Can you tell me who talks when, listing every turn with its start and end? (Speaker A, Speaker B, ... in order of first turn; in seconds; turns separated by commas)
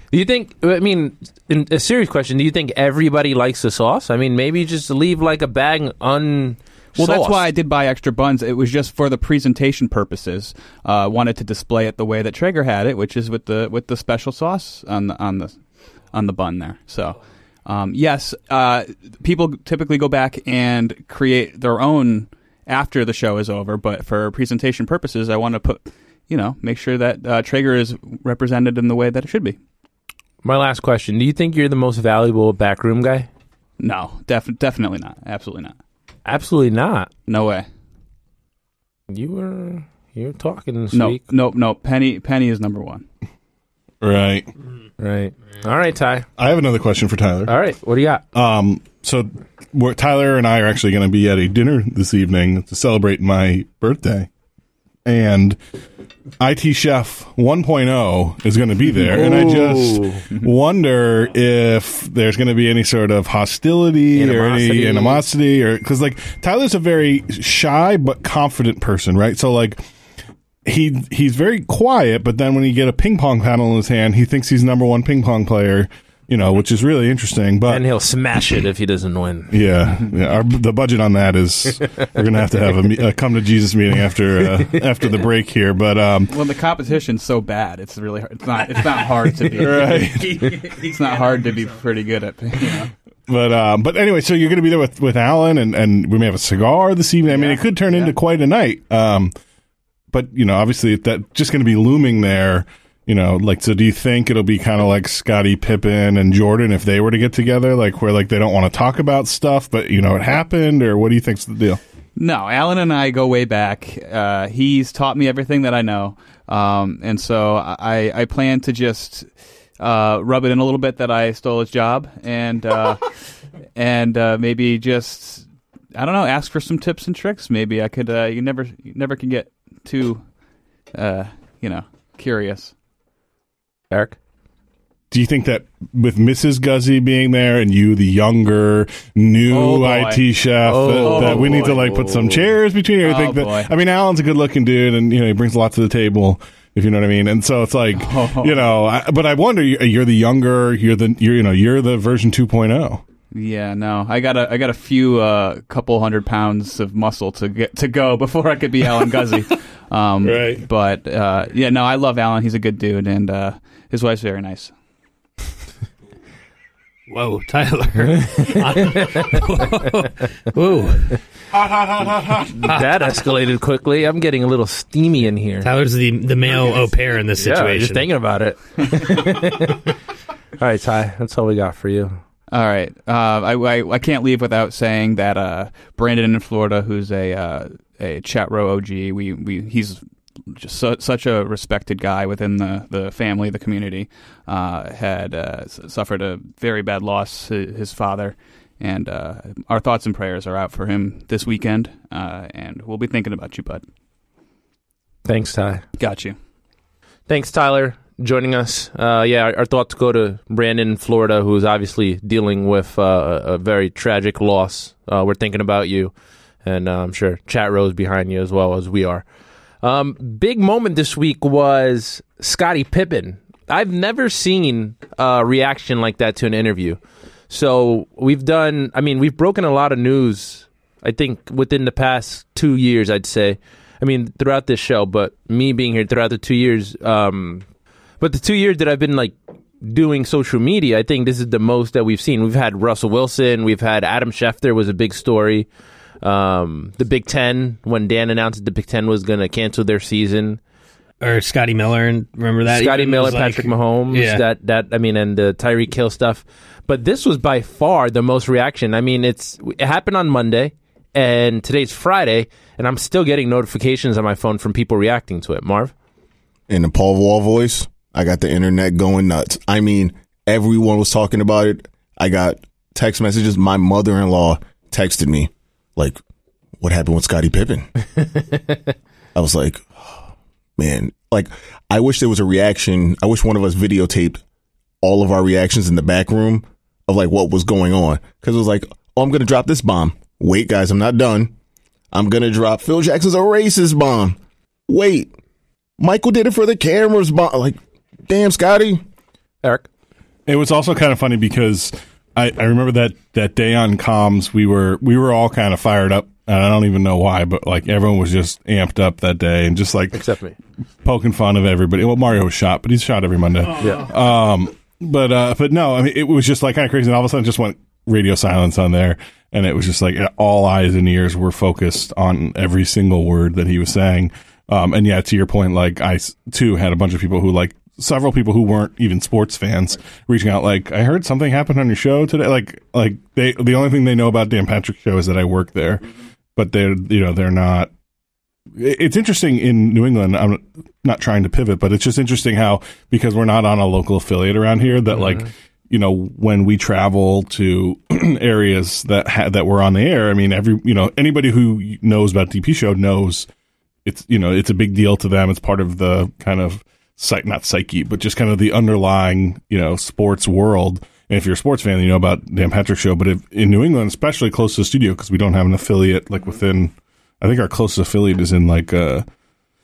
Speaker A: 0.1-7.5, Speaker B: 7.0-29.6, Speaker A: 30.4-33.3, Speaker B: 33.8-35.8, Speaker A: 36.2-37.1, Speaker B: 37.3-37.7, Speaker A: 39.1-41.2, Speaker B: 40.9-43.0, Speaker C: 44.0-44.5, Speaker A: 45.0-46.3, Speaker C: 46.4-47.5, Speaker A: 47.5-48.2, Speaker C: 48.3-54.3, Speaker C: 55.0-55.6, Speaker C: 56.4-69.8, Speaker A: 59.1-60.2, Speaker A: 64.2-65.2, Speaker C: 70.7-77.8, Speaker A: 77.7-79.6, Speaker C: 79.5-86.4, Speaker B: 86.3-92.9, Speaker C: 89.6-90.6, Speaker C: 93.3-99.3, Speaker B: 97.3-98.2, Speaker C: 100.1-111.8, Speaker B: 112.2-123.2, Speaker B: 123.8-130.3, Speaker B: 130.9-132.7, Speaker A: 133.9-134.2, Speaker C: 135.1-153.0, Speaker B: 139.5-140.2, Speaker A: 140.7-142.5, Speaker B: 140.9-141.9, Speaker B: 143.0-143.7, Speaker B: 148.0-148.7, Speaker B: 153.3-164.7, Speaker C: 160.3-160.6, Speaker D: 167.1-171.2, Speaker A: 168.8-169.4, Speaker A: 172.6-175.7, Speaker D: 175.6-178.1, Speaker A: 177.4-179.9, Speaker A: 180.6-182.2, Speaker B: 182.5-203.8, Speaker A: 205.2-205.8, Speaker B: 206.0-206.4, Speaker A: 207.3-216.1, Speaker A: 216.6-219.2, Speaker A: 219.8-237.7, Speaker A: 238.2-245.7, Speaker A: 246.2-250.6, Speaker D: 251.2-254.4, Speaker A: 252.7-265.9, Speaker E: 266.7-276.2, Speaker E: 276.8-277.9, Speaker E: 279.4-279.9, Speaker E: 280.8-284.4, Speaker E: 285.0-291.5, Speaker E: 292.1-295.3, Speaker E: 296.0-299.0, Speaker A: 299.6-299.9, Speaker C: 300.5-310.2, Speaker A: 310.1-310.6, Speaker C: 311.0-336.0, Speaker A: 313.8-314.1, Speaker C: 336.6-337.9, Speaker C: 338.8-353.5, Speaker C: 354.1-369.3